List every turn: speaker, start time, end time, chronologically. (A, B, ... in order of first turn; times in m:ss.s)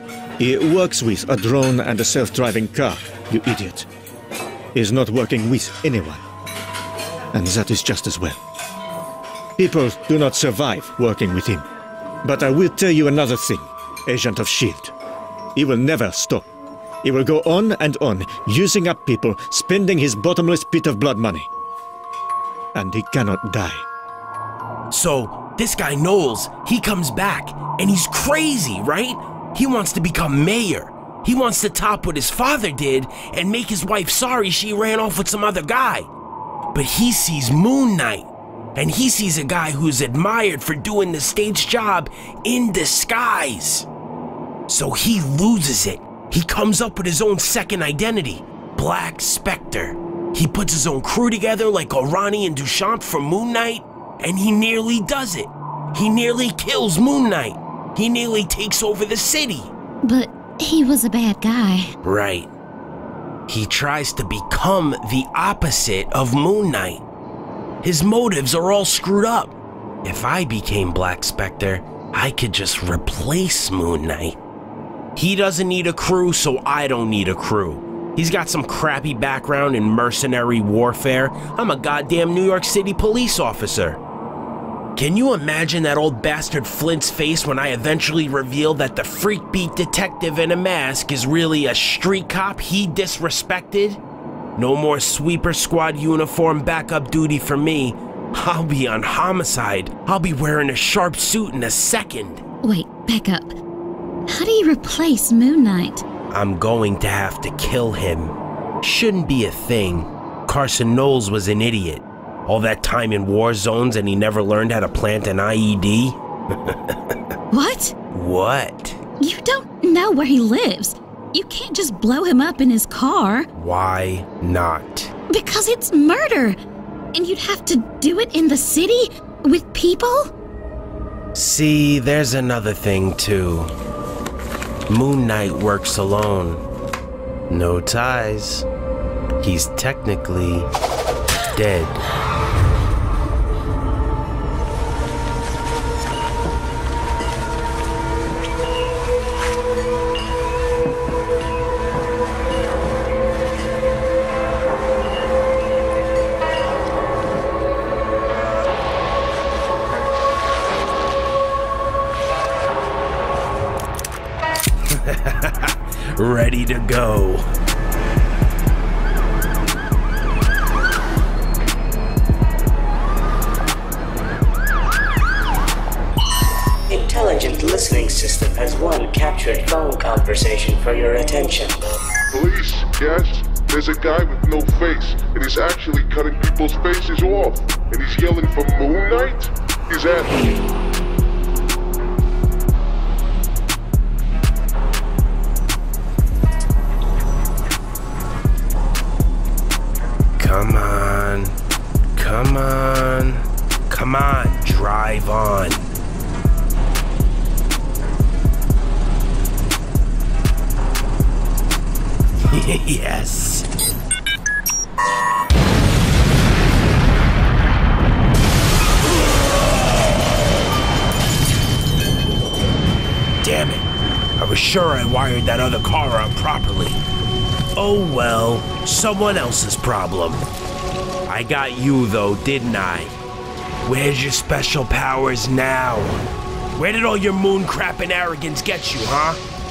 0:00.4-0:03.9 A
0:04.7-0:06.2 A
0:07.3-0:08.4 A
0:09.6-0:11.6 A
0:12.2-0:14.9 A
0:15.6-0:16.5 A
0:17.0-0:21.5 A
0:22.7-0:23.8 A
0:24.9-0:36.1 B
0:36.7-0:43.9 B
0:44.7-0:59.7 B
1:00.0-1:01.9 C
1:02.0-1:02.5 B
1:03.5-1:07.0 B
1:07.8-1:14.4 B
1:15.2-1:24.0 B
1:25.0-1:34.0 B
1:34.6-1:42.4 B
1:42.6-1:43.6 C
1:44.3-1:46.0 C
1:46.3-1:57.0 B
1:57.5-1:58.0 C
1:58.1-1:59.0 B
1:59.2-2:03.5 C
2:03.5-2:05.1 B
2:05.3-2:06.6 C
2:07.1-2:10.3 C
2:11.3-2:13.7 B
2:14.9-2:16.6 B
2:17.5-2:18.6 B
2:19.4-2:20.7 B
2:21.5-2:22.0 B
2:44.9-2:47.4 B
2:56.9-3:01.8 D
3:02.3-3:10.6 E
3:20.4-3:21.5 B
3:22.1-3:25.9 B
3:32.5-3:33.6 B
3:43.4-3:47.0 B
3:47.7-3:50.4 B
3:51.3-3:53.2 B
3:53.8-3:56.2 B
3:56.8-3:59.4 B